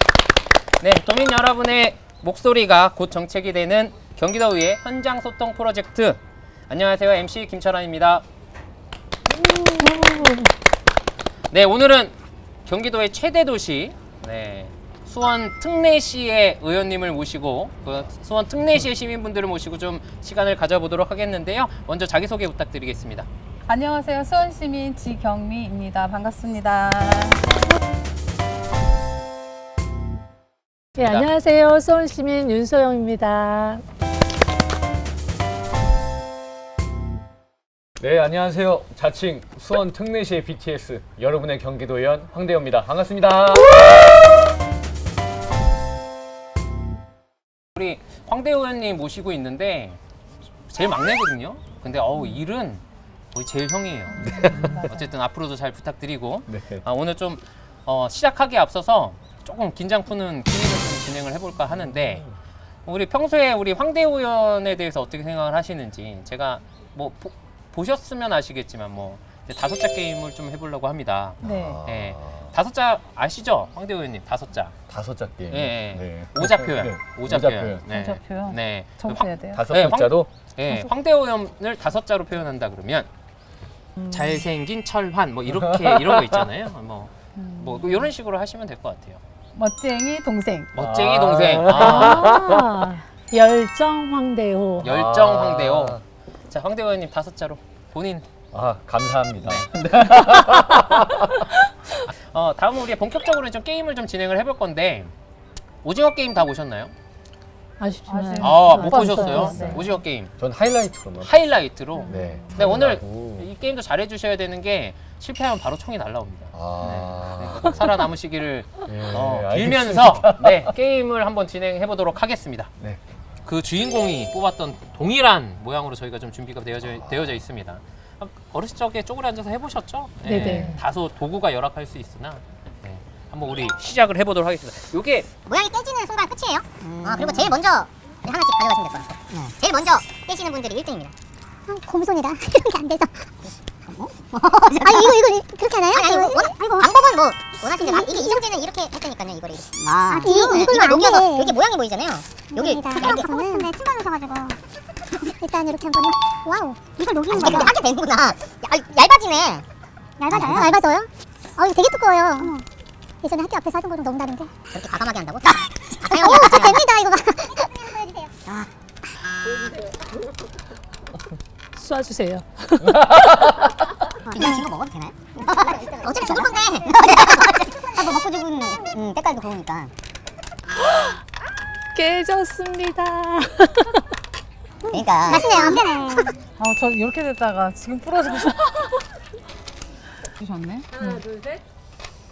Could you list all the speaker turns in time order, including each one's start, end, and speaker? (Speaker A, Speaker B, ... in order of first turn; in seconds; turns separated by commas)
Speaker A: 0.8-8.2, Speaker B: 9.3-10.4, Speaker A: 11.5-23.3, Speaker C: 23.7-27.4, Speaker B: 31.0-33.8, Speaker A: 31.0-31.3, Speaker D: 38.0-44.0, Speaker A: 47.8-50.0, Speaker A: 50.7-52.8, Speaker A: 53.3-62.2, Speaker C: 54.2-55.1, Speaker D: 54.2-54.9, Speaker D: 56.5-56.9, Speaker D: 61.9-62.3, Speaker A: 62.9-74.7, Speaker D: 71.4-72.5, Speaker C: 71.4-71.8, Speaker D: 74.9-77.8, Speaker A: 75.5-83.1, Speaker C: 77.9-79.6, Speaker D: 79.5-80.3, Speaker C: 80.7-80.9, Speaker C: 84.0-84.4, Speaker A: 84.1-89.2, Speaker D: 85.5-86.5, Speaker C: 87.3-88.1, Speaker C: 89.5-90.7, Speaker A: 90.7-92.2, Speaker D: 90.8-92.8, Speaker B: 91.7-94.9, Speaker D: 94.8-96.0, Speaker A: 94.8-98.2, Speaker D: 98.5-101.5, Speaker A: 99.4-99.7, Speaker A: 102.1-105.1, Speaker A: 105.8-106.9, Speaker B: 107.8-109.8, Speaker C: 108.1-110.0, Speaker A: 108.4-110.3, Speaker D: 109.5-109.8, Speaker D: 110.4-111.4, Speaker A: 111.2-122.7, Speaker D: 112.0-113.5, Speaker D: 116.5-118.0, Speaker D: 118.8-120.7, Speaker A: 123.4-135.3, Speaker D: 126.8-127.4, Speaker B: 130.2-130.8, Speaker D: 130.3-130.7, Speaker E: 135.4-141.1, Speaker F: 137.1-137.5, Speaker F: 141.7-143.2, Speaker E: 143.9-153.7, Speaker F: 144.8-148.4, Speaker F: 149.8-151.6, Speaker F: 152.5-154.6, Speaker F: 155.4-157.8, Speaker E: 157.2-159.6, Speaker F: 160.2-162.6, Speaker E: 160.3-161.0, Speaker F: 163.2-164.6, Speaker E: 164.6-167.1, Speaker F: 166.0-168.2, Speaker B: 171.7-173.2, Speaker D: 172.9-173.4, Speaker E: 174.3-179.9, Speaker F: 174.3-174.7, Speaker F: 175.5-178.1, Speaker B: 181.9-184.0, Speaker E: 184.9-186.3, Speaker F: 185.2-186.3, Speaker C: 186.6-188.8, Speaker C: 190.4-191.2